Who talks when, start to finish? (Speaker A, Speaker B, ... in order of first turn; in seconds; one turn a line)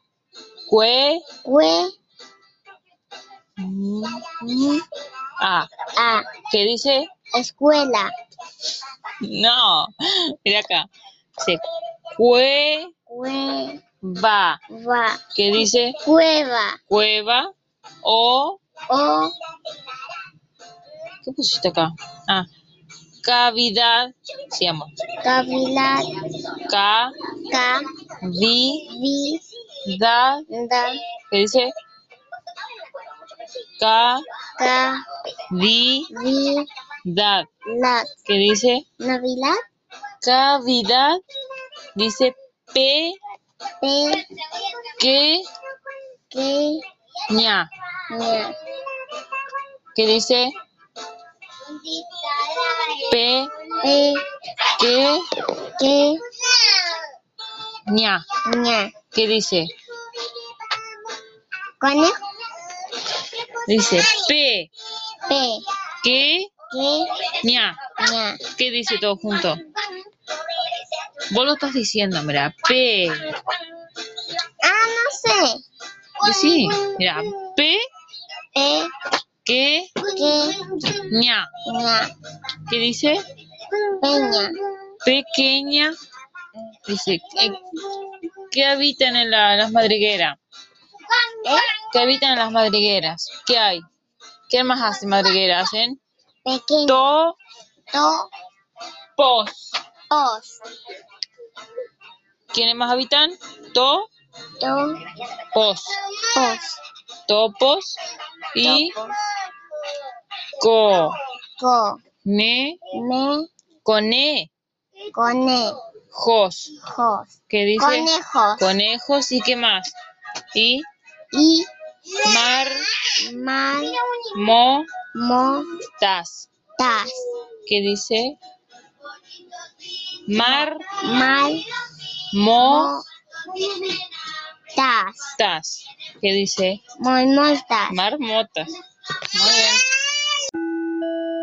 Speaker A: 0.7-1.2
Speaker B: 1.5-1.9
Speaker A: 3.6-4.3
Speaker B: 4.5-4.8
Speaker A: 5.4-5.7
Speaker A: 6.4-7.1
Speaker B: 7.4-8.1
Speaker A: 9.2-9.9
Speaker A: 10.4-10.9
Speaker A: 12.2-12.9
Speaker B: 13.1-13.8
Speaker A: 14.0-14.6
Speaker B: 14.7-15.2
Speaker A: 15.3-16.0
Speaker B: 16.1-16.7
Speaker A: 16.9-17.5
Speaker A: 18.0-18.6
Speaker B: 18.9-19.3
Speaker A: 21.2-22.5
Speaker A: 23.2-24.9
Speaker B: 25.3-26.0
Speaker A: 26.7-27.1
Speaker B: 27.5-27.8
Speaker A: 28.2-28.9
Speaker B: 28.9-29.4
Speaker A: 29.9-30.4
Speaker B: 30.5-30.9
Speaker A: 31.3-31.7
Speaker A: 33.8-34.2
Speaker B: 34.6-35.0
Speaker A: 35.5-36.1
Speaker B: 36.1-36.6
Speaker A: 37.1-37.5
Speaker B: 37.7-38.1
Speaker A: 38.3-38.8
Speaker B: 39.0-39.6
Speaker A: 40.2-41.2
Speaker A: 42.0-43.2
Speaker B: 43.8-44.1
Speaker A: 45.0-45.5
Speaker B: 46.3-46.8
Speaker A: 47.3-47.7
Speaker B: 48.1-48.5
Speaker A: 50.0-50.5
Speaker A: 53.1-53.5
Speaker B: 53.8-54.2
Speaker A: 54.8-55.2
Speaker B: 55.8-56.2
Speaker A: 57.9-58.2
Speaker B: 58.5-58.9
Speaker A: 59.0-59.7
Speaker B: 61.8-62.1
Speaker A: 63.7-64.7
Speaker B: 65.3-65.6
Speaker A: 66.0-66.5
Speaker B: 66.7-67.0
Speaker A: 67.3-67.8
Speaker B: 68.0-68.4
Speaker A: 68.5-69.6
Speaker A: 71.3-73.3
Speaker B: 74.6-75.6
Speaker A: 76.2-77.8
Speaker B: 78.6-78.9
Speaker A: 79.5-79.9
Speaker B: 80.1-80.6
Speaker A: 81.0-81.5
Speaker B: 81.7-82.1
Speaker A: 82.7-83.2
Speaker B: 84.0-84.5
Speaker A: 85.0-85.9
Speaker A: 86.9-87.5
Speaker A: 88.5-90.4
Speaker A: 91.8-93.8
Speaker A: 94.5-96.0
Speaker B: 96.5-97.0
Speaker A: 96.8-97.4
Speaker B: 97.9-98.3
Speaker A: 99.2-99.8
Speaker B: 100.1-100.5
Speaker A: 102.5-104.1
Speaker B: 104.6-104.9
Speaker A: 105.5-106.0
Speaker B: 106.4-106.7
Speaker A: 107.3-108.0
Speaker A: 108.5-109.0
Speaker B: 108.6-109.1
Speaker A: 110.6-111.2
Speaker B: 111.6-112.0
Speaker A: 112.2-112.8
Speaker B: 113.0-113.5
Speaker A: 113.8-114.5
Speaker B: 115.1-115.7
Speaker A: 116.1-116.7
Speaker B: 116.9-117.3
Speaker A: 117.5-120.0
Speaker B: 117.8-118.6
Speaker A: 120.5-120.9
Speaker B: 121.3-121.7
Speaker A: 122.2-122.9
Speaker B: 123.3-123.9
Speaker A: 124.3-124.9
Speaker B: 125.2-125.6
Speaker A: 126.0-126.5
Speaker B: 126.8-127.2
Speaker A: 127.7-128.4
Speaker A: 130.3-130.9
Speaker B: 131.0-131.6
Speaker A: 132.3-133.0
Speaker B: 132.6-133.0
Speaker B: 134.8-135.2
Speaker A: 135.3-136.8
Speaker B: 137.0-138.0
Speaker A: 137.9-138.7
Speaker A: 139.3-139.8